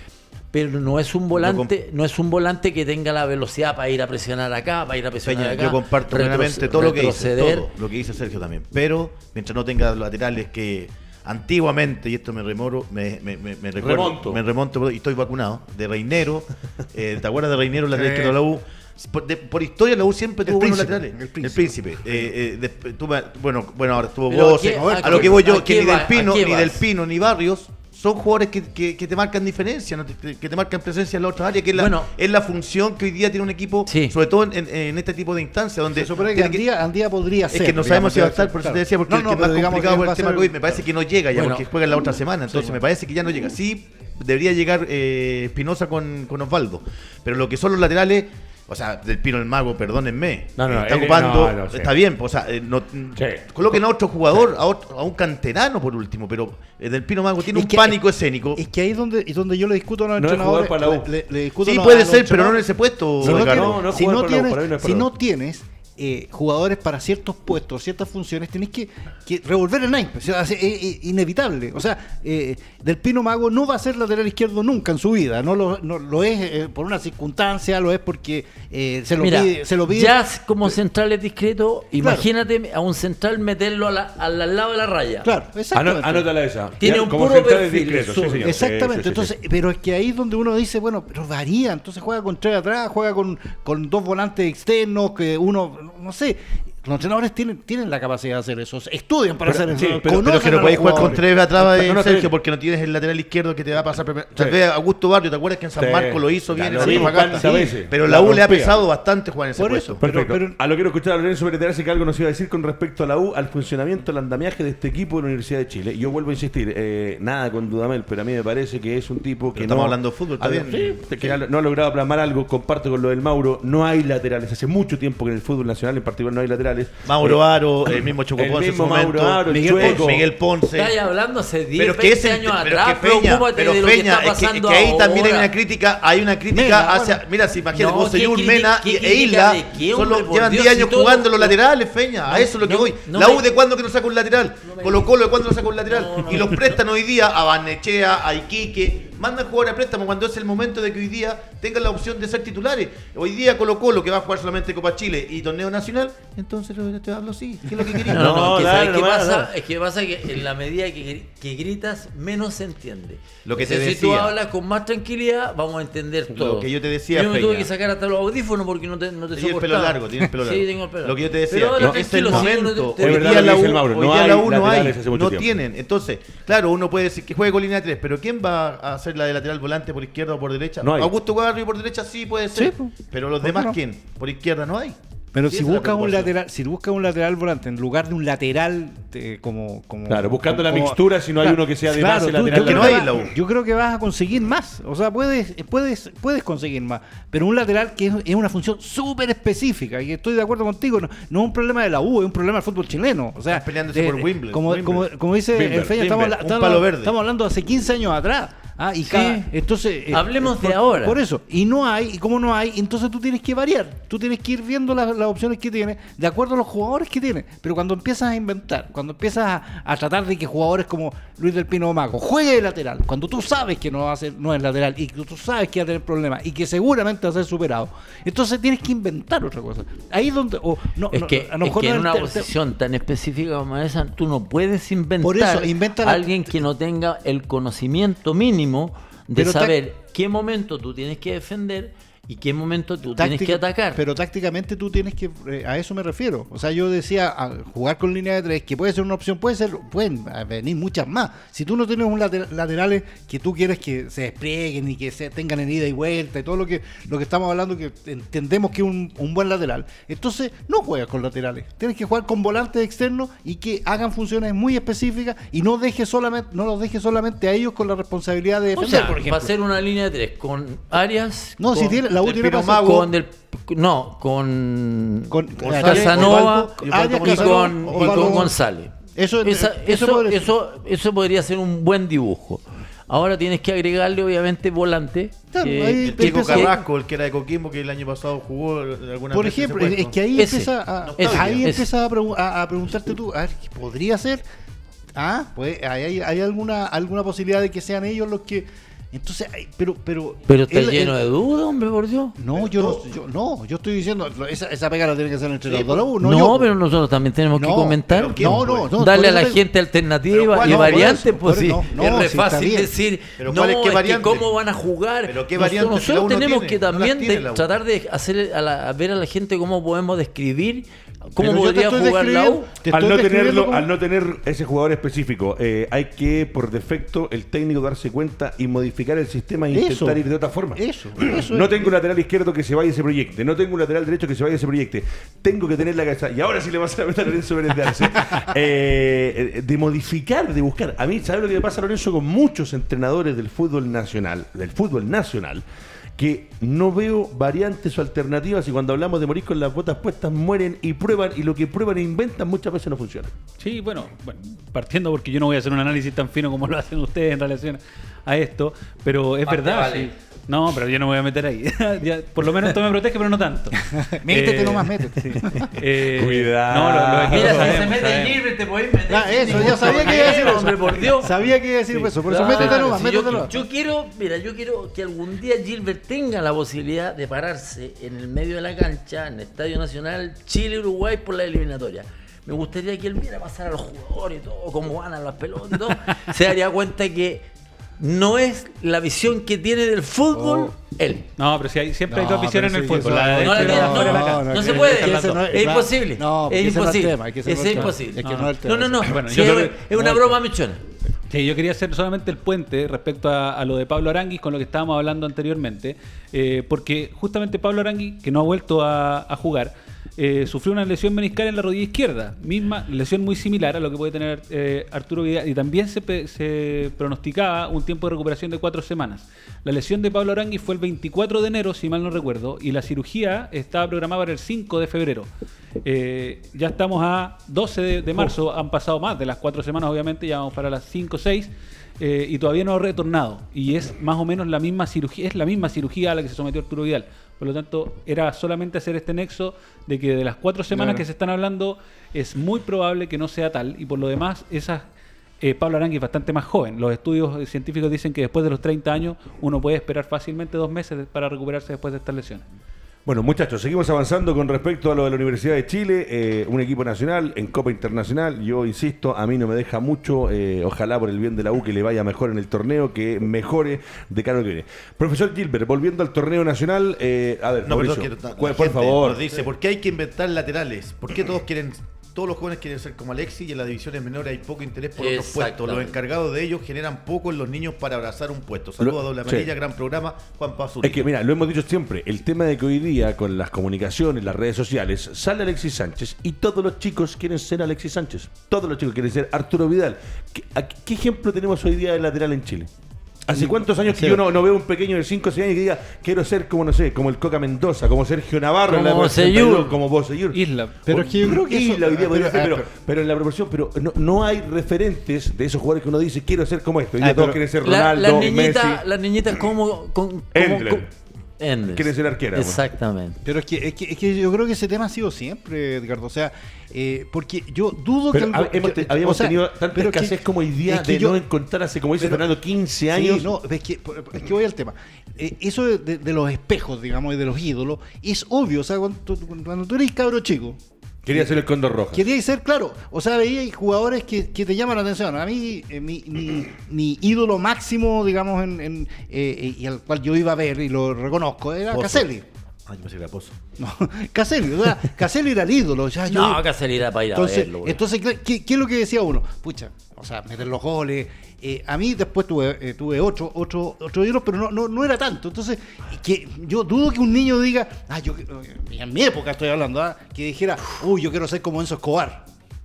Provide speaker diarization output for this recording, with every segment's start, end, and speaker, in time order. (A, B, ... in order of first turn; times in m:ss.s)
0:00.5-0:07.7 A
0:01.3-0:01.7 B
0:05.2-0:36.6 B
0:13.8-0:14.4 C
0:17.9-0:18.4 D
0:20.4-0:21.8 D
0:24.3-0:26.8 A
0:24.7-0:25.5 D
0:31.8-0:32.1 A
0:33.9-0:34.2 A
0:35.9-0:40.8 D
0:37.5-0:58.6 B
0:41.4-0:41.7 A
0:42.5-0:42.8 D
0:50.6-0:51.9 C
0:53.2-0:53.5 C
0:57.4-0:58.0 D
0:58.5-1:20.2 D
1:00.2-1:01.1 C
1:01.6-1:03.8 B
1:03.2-1:05.1 C
1:19.2-1:25.3 A
1:22.0-1:22.3 D
1:25.2-1:26.3 D
1:25.7-1:29.3 C
1:26.8-1:28.5 A
1:28.4-1:41.2 D
1:39.5-1:42.3 C
1:40.1-1:50.0 B
1:45.8-1:48.8 C
1:46.8-1:47.2 D
1:49.6-1:50.6 D
1:50.0-2:10.2 C
1:59.5-2:01.4 B
2:07.1-2:11.0 B
2:09.5-2:10.1 D
2:10.7-2:15.5 A
2:11.8-2:38.3 B
2:16.5-2:17.2 D
2:17.7-2:21.6 A
2:22.3-2:23.5 A
2:24.7-2:25.1 A
2:25.9-2:26.8 A
2:38.1-2:53.7 A
2:38.1-2:39.5 C
2:43.4-2:44.4 B
2:46.3-2:47.7 B
2:49.4-3:06.3 B
2:51.8-2:55.6 C
3:00.8-3:01.1 C
3:02.5-3:03.8 D
3:05.3-3:52.5 D
3:10.1-3:13.1 C
3:12.5-3:13.3 B
3:23.5-3:25.1 B
3:25.6-3:26.3 C
3:26.0-3:27.1 B
3:29.1-3:29.5 A
3:30.1-3:31.2 A
3:51.1-4:04.0 A
3:55.2-3:56.4 D
3:59.4-3:59.8 D
4:03.2-4:29.5 D
4:28.8-4:46.8 A
4:31.6-4:33.0 D
4:32.2-4:33.1 B
4:35.3-4:38.6 D
4:35.6-4:38.5 B
4:39.2-4:40.5 D
4:45.5-4:46.9 D
4:46.0-4:50.2 B
4:49.3-4:54.4 D
4:50.4-4:51.9 A
4:51.0-4:51.7 B
4:55.2-5:01.2 D
5:00.5-5:02.4 A
5:02.4-5:06.7 D
5:02.5-5:03.0 B
5:05.7-5:06.1 B
5:06.2-5:22.7 A
5:07.5-5:09.6 D
5:08.1-5:08.9 B
5:10.3-5:11.3 B
5:10.6-5:12.9 D
5:13.4-5:14.5 B
5:15.3-5:17.7 B
5:21.4-5:23.9 D
5:22.8-5:45.6 C
5:29.7-5:30.2 D
5:30.7-5:32.0 D
5:46.2-5:53.3 C
5:53.6-6:08.4 E
5:59.4-6:00.1 A
6:03.9-6:05.7 D
6:06.0-6:07.9 C
6:07.3-6:11.3 A
6:09.1-6:13.5 D
6:09.6-6:10.6 E
6:11.9-6:13.4 E
6:12.3-6:27.5 A
6:28.0-6:31.3 A
6:30.3-6:30.7 D
6:31.4-6:35.5 E
6:32.1-6:39.2 D
6:33.4-6:40.8 A
6:37.7-6:40.2 E
6:39.4-6:40.3 C
6:41.3-7:05.3 E
7:05.8-7:24.8 E
7:20.7-7:21.0 D
7:25.4-7:32.4 E
7:33.1-7:49.3 C
7:47.6-8:01.1 B
7:55.0-7:56.0 A
7:58.8-7:59.5 C
8:00.8-8:12.7 C
8:13.3-8:28.8 C
8:13.3-8:14.2 D
8:18.7-8:19.8 A
8:20.3-8:20.8 E
8:20.9-8:22.7 D
8:27.0-8:27.4 D
8:27.6-8:30.9 A
8:30.3-8:30.9 C
8:31.4-8:33.2 A
8:31.7-8:32.6 C
8:33.2-8:41.2 D
8:38.1-8:43.3 C
8:42.0-8:42.2 D
8:42.9-8:50.6 D
8:51.0-8:52.0 C
8:51.9-9:02.3 D
9:01.7-9:02.1 B
9:02.7-9:03.4 B
9:03.6-9:06.5 D
9:06.0-9:07.8 A
9:07.1-9:22.3 D